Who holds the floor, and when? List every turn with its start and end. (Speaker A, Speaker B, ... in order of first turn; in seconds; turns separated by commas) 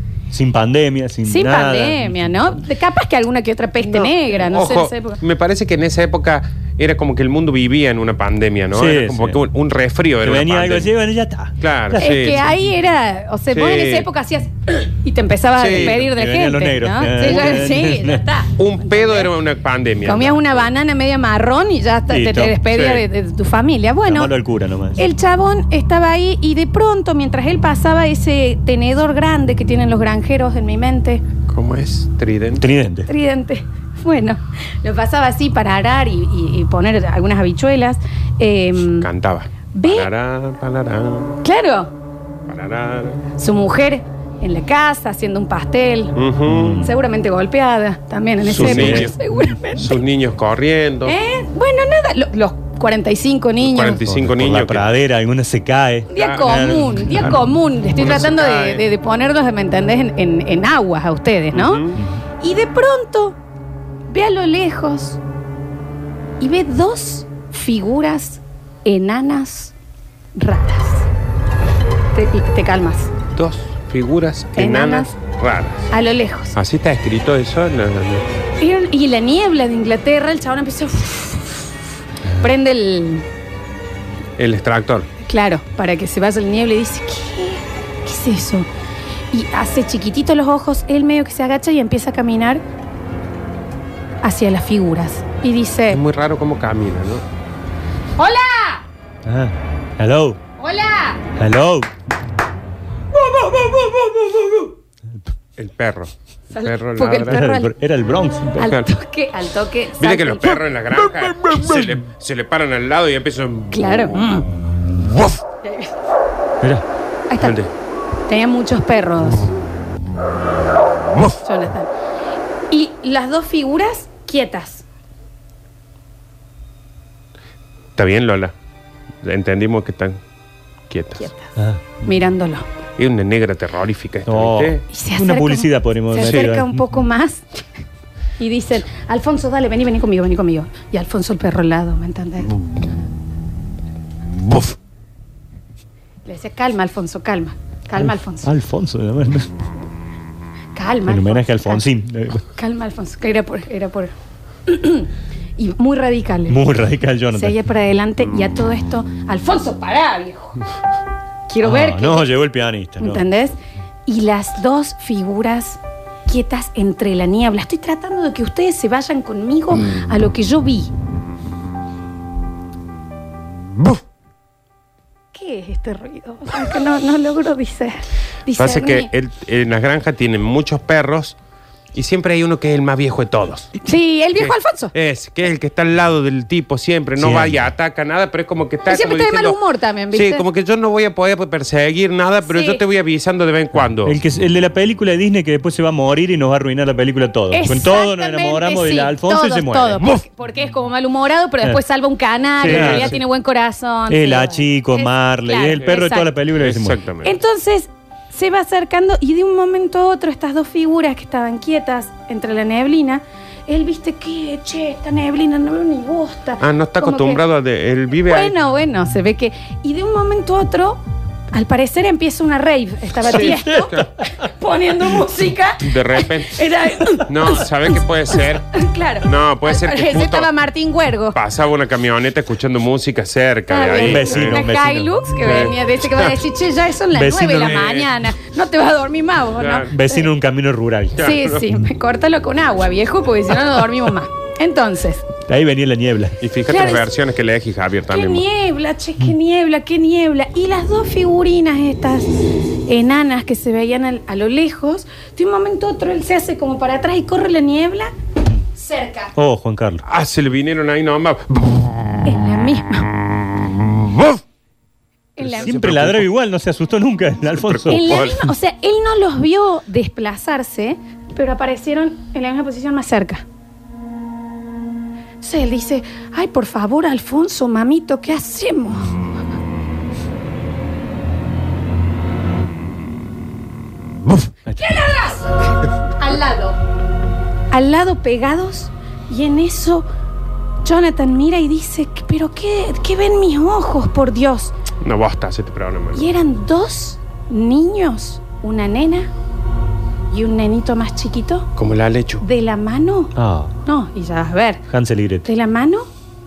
Speaker A: 0.3-2.5, Speaker B: 1.2-5.2, Speaker C: 3.9-10.9, Speaker A: 8.7-9.4, Speaker A: 10.2-12.4, Speaker C: 11.6-12.5, Speaker B: 11.9-19.3, Speaker C: 13.5-14.1, Speaker C: 15.6-16.0, Speaker A: 15.7-18.2, Speaker C: 18.6-20.7, Speaker B: 20.1-24.3, Speaker A: 22.1-22.6, Speaker C: 22.7-23.1, Speaker A: 24.1-25.0, Speaker B: 25.0-31.2, Speaker C: 31.5-32.7, Speaker A: 32.6-33.1, Speaker B: 33.1-39.1, Speaker C: 39.0-41.4, Speaker B: 39.7-40.1, Speaker B: 41.4-41.9, Speaker C: 42.5-43.2, Speaker B: 43.4-46.1, Speaker C: 46.2-46.8, Speaker A: 46.5-47.0, Speaker B: 46.8-50.0, Speaker A: 48.5-49.5, Speaker C: 48.5-49.1, Speaker C: 49.8-51.2, Speaker B: 51.1-54.0, Speaker C: 53.6-54.9, Speaker A: 54.0-57.4, Speaker B: 56.1-61.8, Speaker C: 56.2-56.5, Speaker C: 58.0-58.9, Speaker C: 61.5-62.0, Speaker A: 62.0-62.2, Speaker B: 62.4-63.4, Speaker B: 64.1-65.2, Speaker B: 66.4-69.7, Speaker B: 70.4-71.1, Speaker B: 72.2-73.1, Speaker C: 73.3-75.9, Speaker B: 74.6-75.1, Speaker B: 75.9-76.5, Speaker C: 76.5-78.3, Speaker B: 78.6-81.7, Speaker A: 82.2-82.5, Speaker B: 82.4-83.3, Speaker C: 84.4-85.1, Speaker B: 85.2-88.7, Speaker B: 89.3-92.6, Speaker B: 94.2-96.0, Speaker C: 95.9-97.2, Speaker B: 98.2-98.8, Speaker A: 99.2-100.4, Speaker B: 100.6-101.2, Speaker A: 101.4-101.9, Speaker C: 105.6-107.5, Speaker B: 106.5-107.7, Speaker A: 107.3-108.8, Speaker B: 108.6-110.6, Speaker C: 108.6-108.9, Speaker C: 110.0-114.3, Speaker B: 113.7-114.5, Speaker B: 117.3-117.6, Speaker C: 117.4-117.7, Speaker B: 118.3-119.5, Speaker B: 121.4-121.9, Speaker B: 122.7-124.8, Speaker C: 128.0-128.5, Speaker C: 129.2-130.2, Speaker C: 130.9-131.3, Speaker B: 131.2-132.7, Speaker A: 131.6-132.0, Speaker C: 133.0-134.8, Speaker A: 134.3-136.9, Speaker B: 134.9-137.6, Speaker B: 138.4-142.5, Speaker B: 146.3-148.5, Speaker A: 148.0-149.5, Speaker B: 150.8-151.8, Speaker A: 151.1-152.4, Speaker B: 152.6-154.1, Speaker B: 154.7-156.6, Speaker A: 156.5-157.6, Speaker B: 157.3-160.6, Speaker B: 161.5-162.3, Speaker A: 161.6-163.2, Speaker B: 163.0-170.9, Speaker B: 175.3-179.1, Speaker C: 178.6-181.4, Speaker C: 181.9-183.7, Speaker B: 183.8-184.9, Speaker C: 184.4-189.6, Speaker A: 187.2-187.7, Speaker B: 188.9-190.4, Speaker C: 190.1-194.2, Speaker B: 192.5-192.8, Speaker A: 194.0-200.1, Speaker B: 197.5-206.3, Speaker C: 202.6-203.2, Speaker A: 202.6-203.2, Speaker A: 204.1-207.0, Speaker C: 206.6-207.4, Speaker B: 207.2-217.4, Speaker C: 216.6-218.6, Speaker B: 218.2-221.0, Speaker B: 221.5-225.9, Speaker C: 223.3-224.1, Speaker A: 223.4-223.9, Speaker C: 225.8-226.6, Speaker B: 226.5-227.7, Speaker C: 227.3-230.5, Speaker B: 228.7-231.4, Speaker C: 231.3-234.6, Speaker B: 233.7-240.3, Speaker A: 233.9-235.2, Speaker C: 235.4-236.3, Speaker A: 237.1-238.0, Speaker C: 237.6-238.1, Speaker C: 239.6-239.9, Speaker A: 239.9-241.3, Speaker C: 241.2-241.6, Speaker B: 241.2-245.2, Speaker A: 245.5-246.4, Speaker C: 246.4-248.4, Speaker B: 246.7-247.1, Speaker B: 248.1-258.1, Speaker B: 258.8-259.3, Speaker A: 259.4-260.0, Speaker C: 260.1-261.8, Speaker B: 262.2-263.1, Speaker C: 263.2-264.4, Speaker B: 265.4-265.7, Speaker C: 265.4-266.3, Speaker A: 265.6-268.2, Speaker C: 267.7-268.4, Speaker B: 267.9-273.4, Speaker B: 275.4-279.1, Speaker A: 284.7-285.0, Speaker B: 284.8-285.6, Speaker B: 286.2-286.8, Speaker B: 287.7-290.1, Speaker B: 290.8-294.7, Speaker C: 295.0-296.3, Speaker B: 296.1-299.3, Speaker B: 300.3-301.7, Speaker C: 301.8-302.4, Speaker B: 302.4-303.3, Speaker A: 303.4-303.8, Speaker B: 303.9-304.8, Speaker A: 304.9-305.5, Speaker B: 305.4-306.1